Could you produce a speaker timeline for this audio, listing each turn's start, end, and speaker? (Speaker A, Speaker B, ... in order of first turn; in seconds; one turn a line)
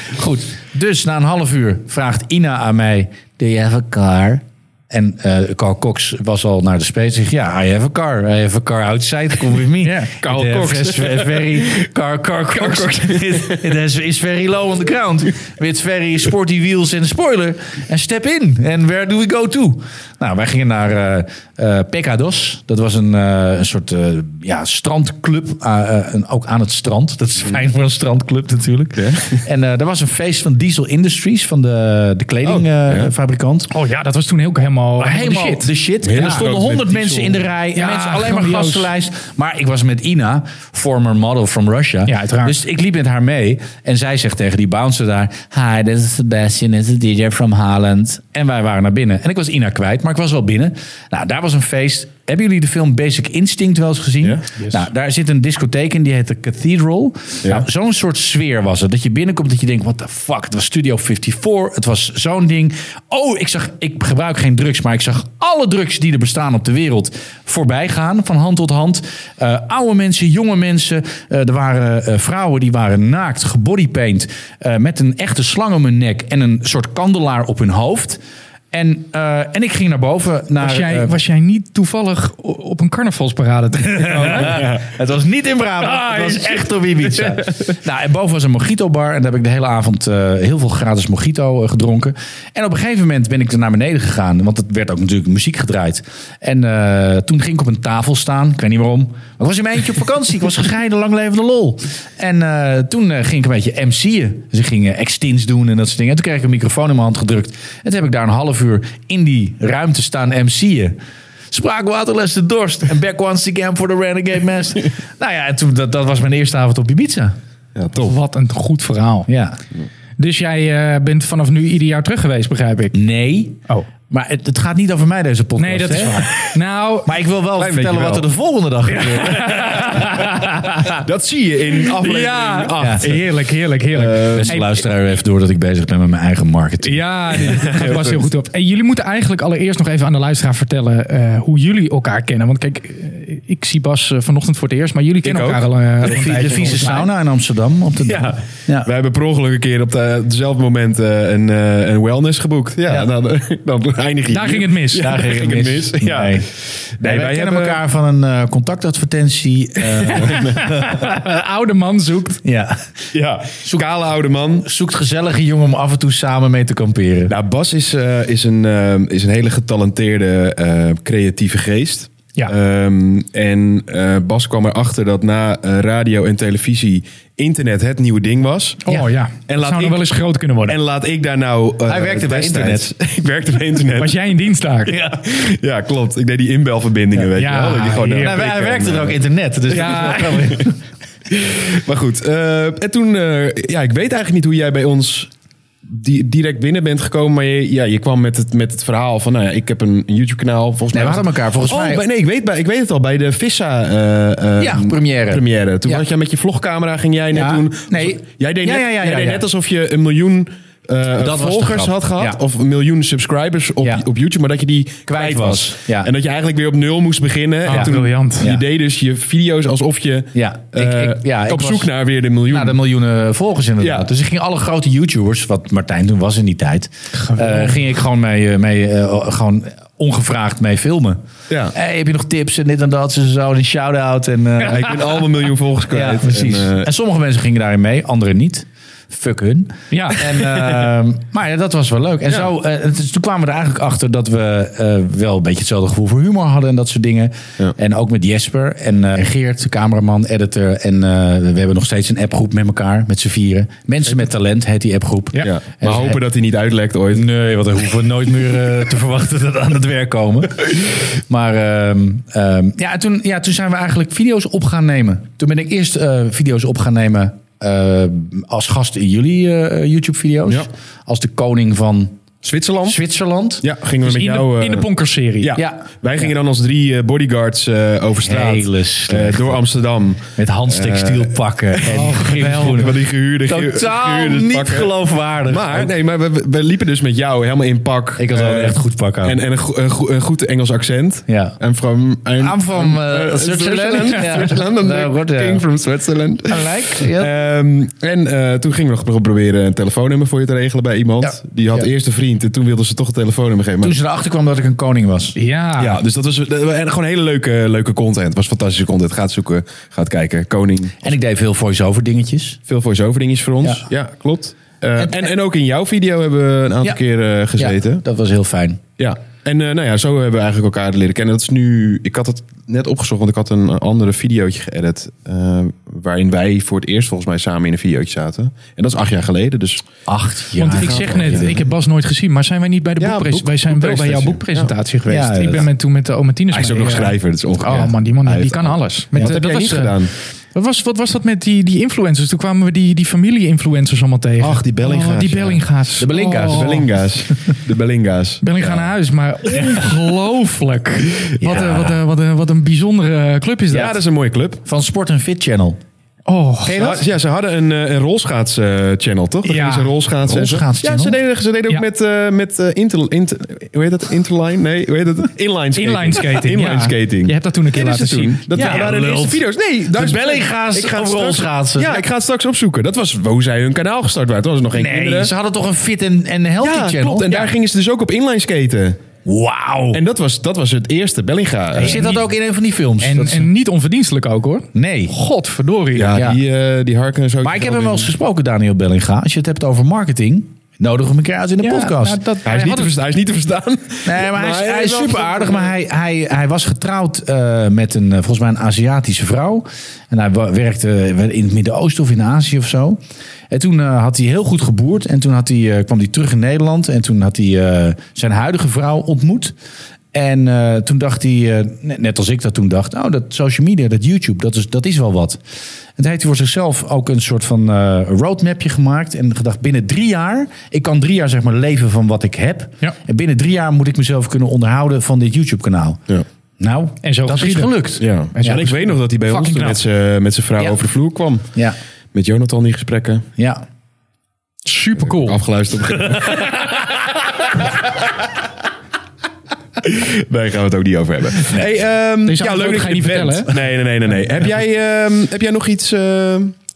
Speaker A: 0.1-33.7
Speaker B: 9.8-10.1
Speaker C: 10.2-11.7
Speaker C: 12.5-13.7
Speaker C: 29.0-29.4
Speaker C: 32.4-33.1
Speaker B: 33.7-36.3
Speaker A: 35.0-78.2
Speaker C: 36.0-37.5
Speaker B: 37.7-38.9
Speaker B: 42.1-42.6
Speaker A: 78.7-81.2
Speaker B: 80.6-84.7
Speaker A: 84.0-111.0
Speaker C: 84.1-84.8
Speaker B: 85.8-87.7
Speaker A: 111.5-117.4
Speaker C: 117.8-118.2
Speaker B: 117.9-119.3
Speaker A: 119.3-119.6
Speaker B: 120.2-123.0
Speaker A: 122.9-126.3
Speaker B: 125.6-127.1
Speaker A: 127.0-130.2
Speaker C: 127.6-128.3
Speaker B: 128.9-131.0
Speaker C: 129.9-130.3
Speaker C: 130.9-134.6
Speaker B: 131.9-134.7
Speaker A: 132.8-133.0
Speaker A: 134.4-137.0
Speaker B: 136.8-147.1
Speaker C: 137.4-138.2
Speaker C: 145.2-146.1
Speaker A: 146.0-148.9
Speaker C: 148.0-157.8
Speaker B: 154.3-155.3
Speaker A: 155.0-160.9
Speaker B: 160.1-162.4
Speaker A: 162.4-162.8
Speaker C: 163.1-164.7
Speaker A: 164.6-167.3
Speaker C: 167.3-178.8
Speaker B: 178.8-180.8
Speaker C: 179.5-180.0
Speaker C: 180.7-184.2
Speaker A: 181.9-182.9
Speaker B: 183.9-184.9
Speaker A: 184.9-185.2
Speaker C: 184.9-189.2
Speaker B: 187.3-188.4
Speaker A: 188.2-190.8
Speaker B: 189.7-190.6
Speaker C: 191.3-195.3
Speaker C: 195.9-222.8
Speaker A: 200.9-202.0
Speaker A: 204.6-206.0
Speaker A: 207.3-209.4
Speaker A: 211.2-212.4
Speaker A: 215.1-216.1
Speaker B: 217.7-218.5
Speaker A: 217.7-218.6
Speaker A: 220.3-221.9
Speaker A: 222.5-231.2
Speaker C: 223.8-224.1
Speaker B: 227.3-227.8
Speaker C: 231.5-231.7
Speaker A: 231.7-235.2
Speaker C: 234.6-236.9
Speaker A: 235.9-256.2
Speaker B: 239.9-240.3
Speaker C: 255.4-257.3
Speaker A: 257.1-272.2
Speaker C: 272.4-273.0
Speaker A: 272.9-273.6
Speaker C: 273.6-274.9
Speaker B: 274.0-275.6
Speaker C: 275.4-284.9
Speaker A: 275.6-275.9
Speaker A: 278.2-279.6
Speaker A: 280.4-282.9
Speaker B: 281.9-282.9
Speaker A: 283.4-285.9
Speaker C: 285.4-304.0
Speaker A: 288.2-289.4
Speaker A: 291.3-291.6
Speaker A: 292.4-295.6
Speaker A: 296.5-297.3
Speaker A: 301.2-301.9
Speaker A: 303.8-305.4
Speaker B: 305.4-306.0
Speaker C: 305.8-311.1
Speaker A: 311.0-312.6
Speaker C: 312.7-318.0
Speaker A: 315.0-315.2
Speaker A: 317.6-318.8
Speaker C: 319.0-329.9
Speaker A: 330.1-331.6
Speaker B: 330.6-346.9
Speaker C: 330.7-331.6
Speaker C: 333.0-334.7
Speaker A: 335.1-335.7
Speaker C: 336.5-340.1
Speaker C: 344.4-345.7
Speaker A: 346.0-346.8
Speaker C: 346.3-348.9
Speaker B: 348.4-354.0
Speaker A: 351.4-352.0
Speaker C: 353.7-354.6
Speaker A: 354.6-355.8
Speaker B: 356.3-357.0
Speaker C: 356.6-375.3
Speaker B: 359.4-359.9
Speaker A: 360.2-361.2
Speaker B: 365.8-368.9
Speaker A: 368.5-372.1
Speaker A: 374.7-377.5
Speaker C: 376.6-379.0
Speaker A: 379.2-380.0
Speaker C: 379.9-382.2
Speaker A: 381.7-383.5
Speaker B: 381.8-382.3
Speaker B: 383.0-386.2
Speaker A: 384.7-385.1
Speaker C: 385.9-388.1
Speaker A: 386.1-386.4
Speaker A: 387.4-392.2
Speaker B: 391.6-392.9
Speaker C: 392.4-395.7
Speaker A: 394.1-409.6
Speaker A: 410.1-415.4
Speaker A: 416.0-426.0
Speaker A: 426.6-428.6
Speaker B: 427.0-427.8
Speaker C: 428.0-431.5
Speaker B: 428.3-429.8
Speaker C: 432.1-433.3
Speaker A: 433.4-433.6
Speaker B: 434.6-435.4
Speaker C: 435.1-436.7
Speaker B: 436.1-436.8
Speaker C: 439.8-446.6
Speaker B: 442.3-443.6